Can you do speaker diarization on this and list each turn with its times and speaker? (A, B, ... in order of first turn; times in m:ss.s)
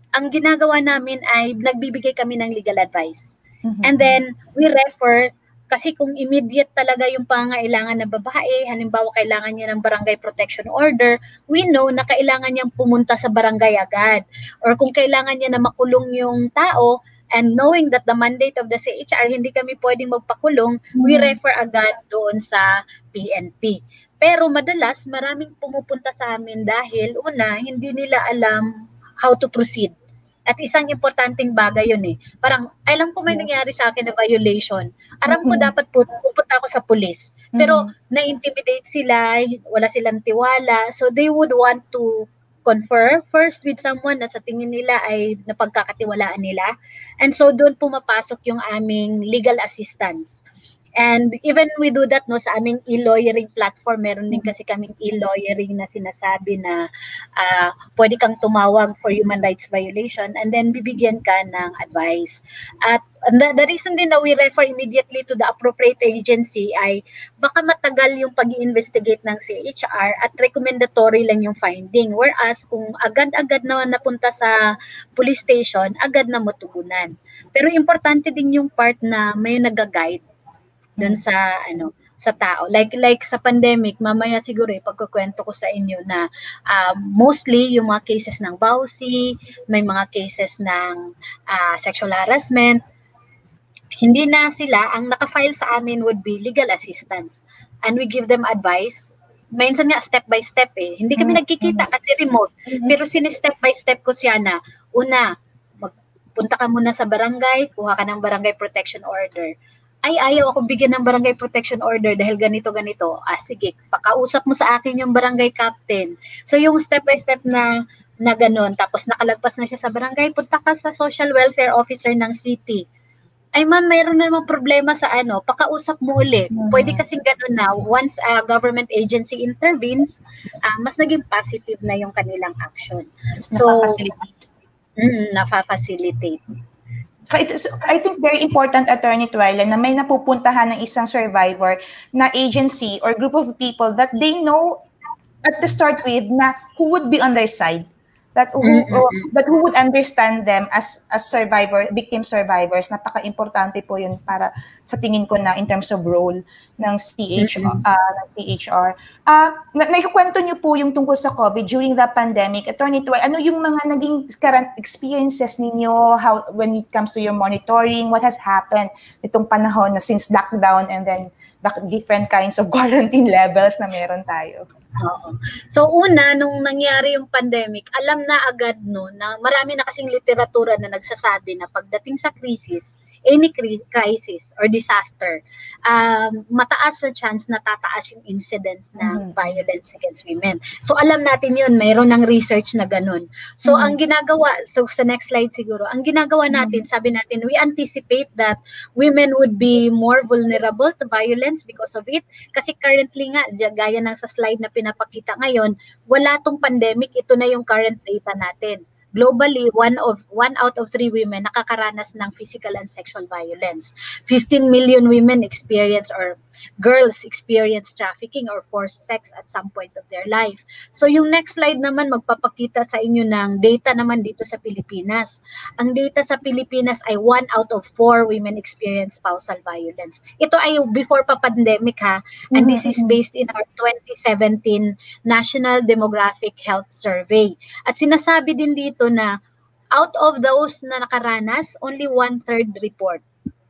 0:00.2-0:28.7 A
0:03.6-0:04.2 B
0:21.0-0:21.4 B
0:29.2-0:29.9 A
0:30.5-0:46.7 A
0:35.3-0:35.7 B
0:37.6-0:37.9 B
0:47.2-0:50.4 A
0:51.0-0:56.8 A
0:57.4-1:14.6 A
1:15.2-1:20.2 A
1:21.0-1:32.8 A
1:34.0-1:49.5 A
1:41.2-1:41.9 B
1:50.0-2:02.8 A
2:03.6-2:14.0 A
2:06.5-2:07.0 B
2:13.4-2:14.5 B
2:15.0-2:16.4 A
2:17.3-2:24.8 B
2:25.4-2:54.6 B
2:28.6-2:29.3 A
2:37.4-2:37.8 A
2:55.0-3:59.3 A
3:09.0-3:09.6 B
3:13.6-3:14.0 B
3:16.5-3:16.8 B
3:52.6-3:53.2 B
4:00.0-4:03.2 A